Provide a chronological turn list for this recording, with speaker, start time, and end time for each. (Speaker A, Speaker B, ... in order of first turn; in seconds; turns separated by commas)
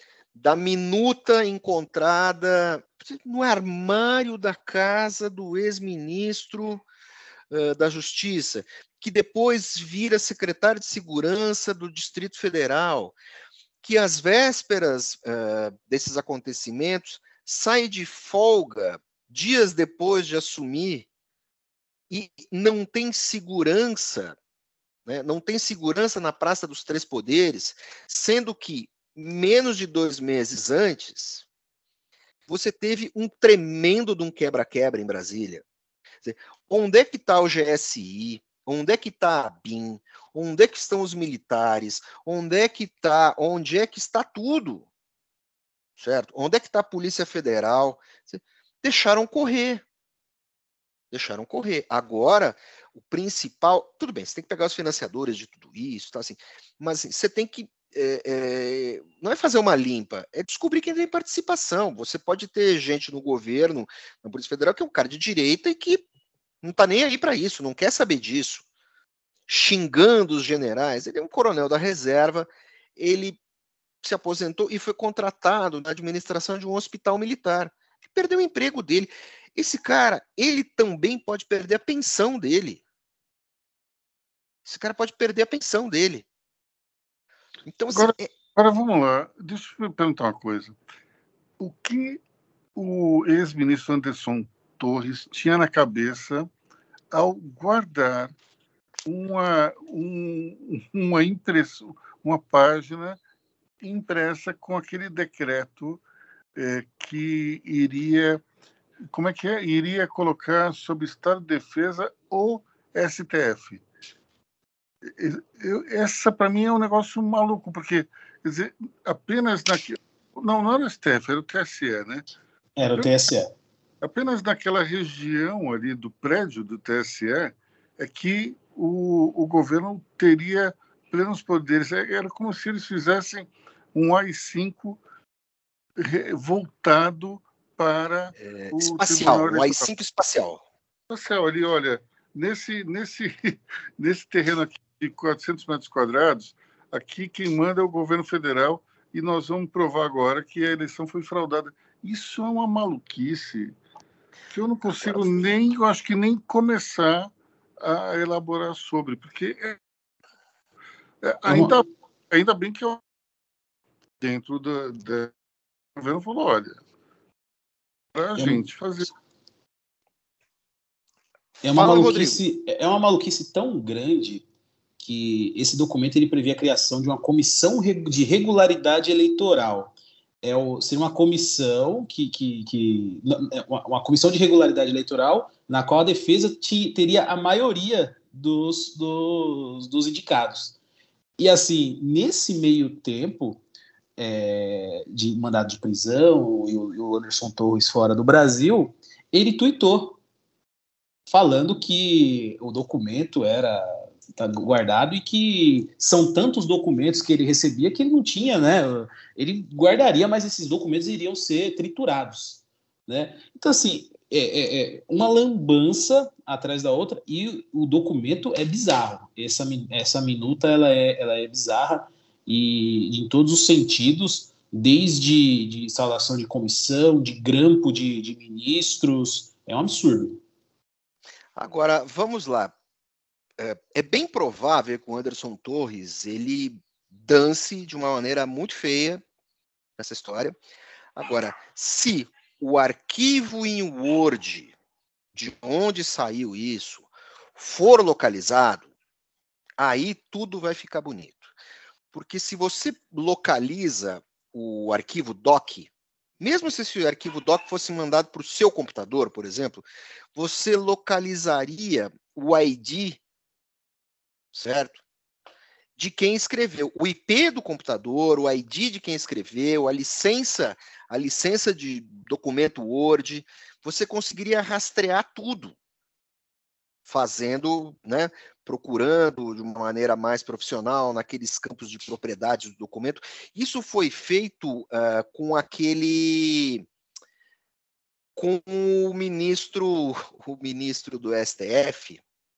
Speaker A: 0.3-6.8, Speaker A: 7.5-13.2, Speaker A: 13.8-21.1, Speaker A: 22.1-24.4, Speaker A: 25.1-31.4, Speaker A: 32.5-35.6, Speaker A: 36.2-44.8, Speaker A: 46.0-49.8, Speaker A: 51.1-66.0, Speaker A: 66.6-68.6, Speaker A: 69.5-73.4, Speaker A: 74.0-82.8, Speaker A: 84.7-86.2, Speaker A: 87.7-88.3, Speaker B: 87.9-90.8, Speaker B: 91.6-92.2, Speaker B: 92.7-96.5, Speaker B: 97.1-98.3, Speaker B: 99.0-103.2, Speaker B: 103.8-106.0, Speaker B: 106.5-108.4, Speaker B: 109.1-113.8, Speaker B: 115.0-122.2, Speaker C: 122.8-123.5, Speaker B: 124.0-135.0, Speaker B: 136.0-139.9, Speaker A: 138.4-140.6, Speaker B: 141.1-153.7, Speaker B: 154.5-159.8, Speaker A: 154.9-155.4, Speaker B: 161.2-163.0, Speaker C: 161.5-161.7, Speaker B: 164.2-165.3, Speaker B: 165.9-166.8, Speaker B: 168.1-169.1, Speaker C: 168.3-168.6, Speaker C: 171.6-174.4, Speaker A: 171.7-172.4, Speaker C: 175.0-190.8, Speaker C: 191.4-193.6, Speaker C: 194.2-200.2, Speaker C: 201.3-230.4, Speaker A: 231.6-232.7, Speaker A: 233.6-239.2, Speaker A: 240.0-240.6, Speaker A: 241.2-244.7, Speaker A: 245.3-248.9, Speaker A: 249.8-251.5, Speaker A: 252.1-263.2, Speaker A: 264.5-265.0, Speaker A: 266.0-275.7, Speaker A: 277.1-286.9, Speaker A: 288.4-292.2